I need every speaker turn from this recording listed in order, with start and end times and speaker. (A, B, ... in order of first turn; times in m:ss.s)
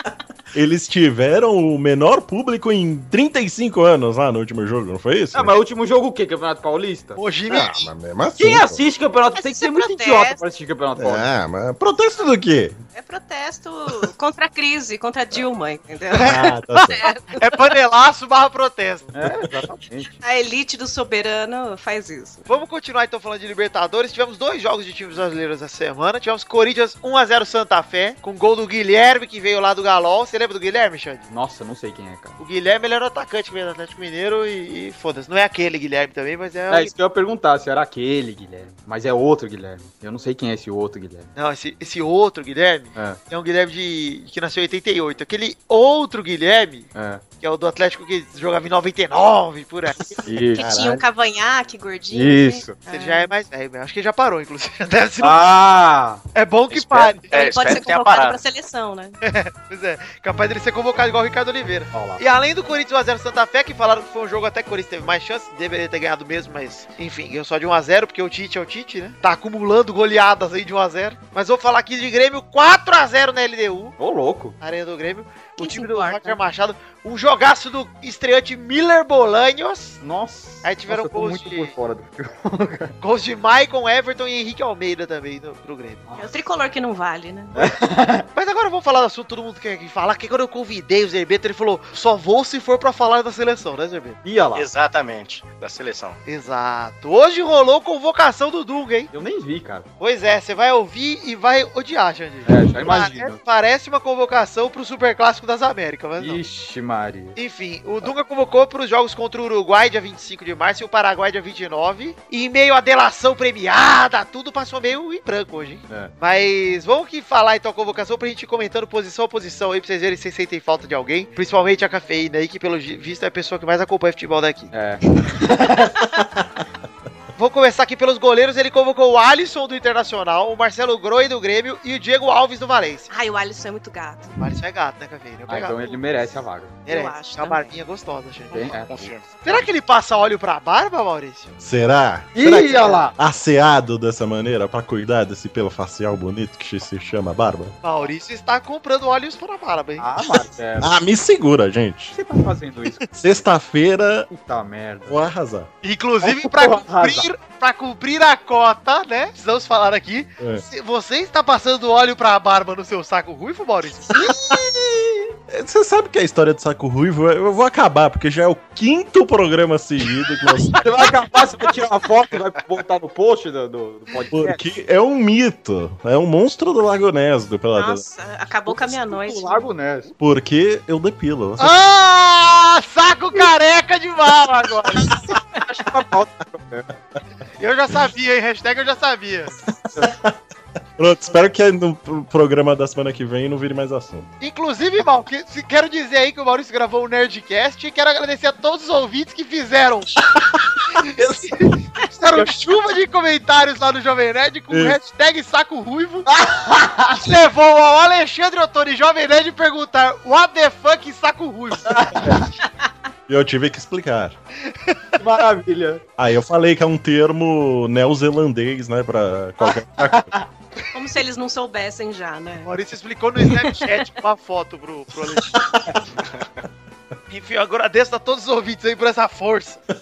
0:00.5-0:05.6 A
0:05.3-0:07.2 B
0:07.2-0:07.9 C
0:07.5-0:08.8 A
0:08.4-0:11.2 B
0:09.4-0:10.4 D
0:11.0-0:12.8 A
0:12.9-0:16.4 D
0:16.2-0:17.1 A
0:16.2-0:16.5 C
0:17.0-0:17.6 D
0:17.4-0:19.1 C
0:19.1-0:20.1 B
0:20.2-0:22.4 D
0:22.5-0:31.3 C
0:31.3-0:32.4 B
0:32.4-0:36.9 C
0:36.7-0:41.3 B
0:41.4-0:50.2 C
0:47.0-0:47.2 B
0:50.0-0:51.0 A
0:50.3-0:50.7 B
0:50.6-0:53.3 D
0:52.1-0:52.8 B
0:52.9-0:55.4 C
0:55.2-0:56.2 B
0:56.3-0:57.8 C
0:56.7-0:58.4 E
0:57.3-0:59.2 D
0:59.2-1:14.0 C
1:01.9-1:02.2 B
1:14.0-1:14.6 B
1:14.6-1:20.0 C
1:15.6-1:16.3 B
1:20.0-1:22.9 B
1:20.6-1:21.7 C
1:23.0-1:26.0 C
1:26.0-1:26.4 B
1:26.2-1:27.6 D
1:27.6-1:28.2 B
1:28.3-1:34.2 C
1:34.2-1:34.7 B
1:34.5-1:36.2 E
1:36.3-1:39.1 C
1:39.1-1:39.8 B
1:40.0-1:46.4 C
1:42.5-1:43.4 B
1:46.2-1:47.4 B
1:47.4-2:04.7 C
2:04.7-2:06.0 B
2:07.4-2:13.1 C
2:13.1-2:14.3 D
2:14.4-2:16.0 C
2:15.5-2:16.8 B
2:16.9-2:18.8 C
2:16.9-2:17.7 D
2:18.5-2:19.1 B
2:18.9-2:19.6 E
2:19.4-2:21.5 C
2:21.6-2:27.8 A
2:22.3-2:23.2 B
2:27.8-2:30.0 C
2:30.0-2:30.9 B
2:30.8-2:32.2 A
2:32.1-2:33.0 B
2:33.1-2:34.3 A
2:34.3-2:35.2 B
2:35.1-2:35.7 A
2:35.8-2:44.3 C
2:36.2-2:37.3 B
2:40.4-2:40.6 A
2:44.1-2:45.3 B
2:45.5-2:50.8 A
2:50.8-2:54.6 B
2:54.3-2:58.0 A
2:57.7-2:59.7 D
2:58.7-3:00.1 B
3:00.2-3:01.7 A
3:01.6-3:05.2 C
3:05.3-3:06.9 B
3:07.6-3:09.6 C
3:09.7-3:10.3 A
3:11.0-3:14.3 A
3:14.4-3:20.2 C
3:20.4-3:21.7 A
3:21.0-3:26.3 C
3:24.7-3:25.0 A
3:26.3-3:27.2 B
3:27.1-3:32.4 C
3:31.9-3:32.4 B
3:33.3-3:34.4 A
3:34.9-3:35.2 C
3:35.2-3:36.0 B
3:36.2-3:40.3 A
3:40.1-3:40.5 B
3:40.9-3:42.7 D
3:42.6-3:45.5 C
3:47.3-3:49.8 C